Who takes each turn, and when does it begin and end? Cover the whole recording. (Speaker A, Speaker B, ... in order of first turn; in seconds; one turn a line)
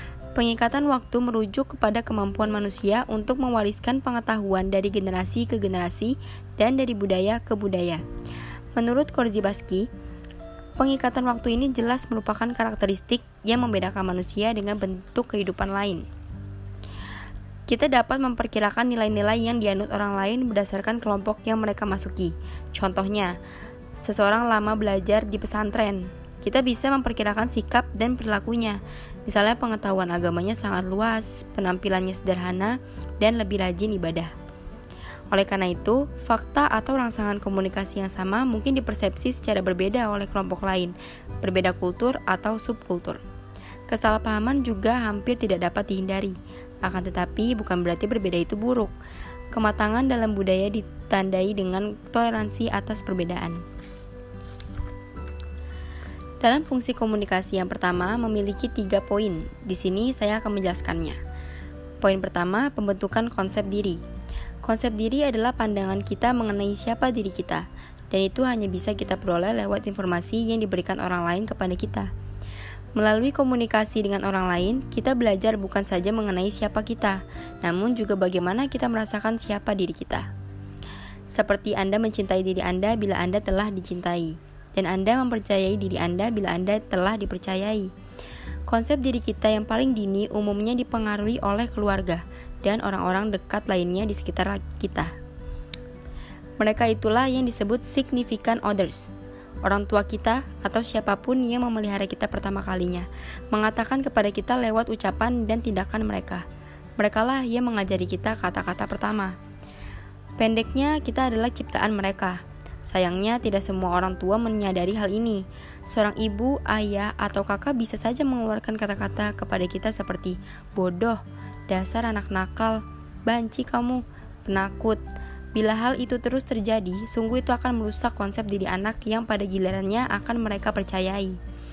Speaker A: 0.3-8.0
Speaker A: 8.8-9.8
Speaker A: 10.8-16.0
Speaker A: 17.7-23.3
Speaker A: 24.0-34.3
Speaker A: 35.3-43.2
Speaker A: 43.9-48.9
Speaker A: 49.5-53.6
Speaker A: 56.4-61.2
Speaker A: 62.0-64.0
Speaker A: 64.6-72.1
Speaker A: 73.0-80.2
Speaker A: 81.3-87.9
Speaker A: 88.7-95.1
Speaker A: 96.6-99.1
Speaker A: 99.6-106.4
Speaker A: 107.0-109.3
Speaker A: 110.4-112.4
Speaker A: 112.9-125.0
Speaker A: 125.5-131.4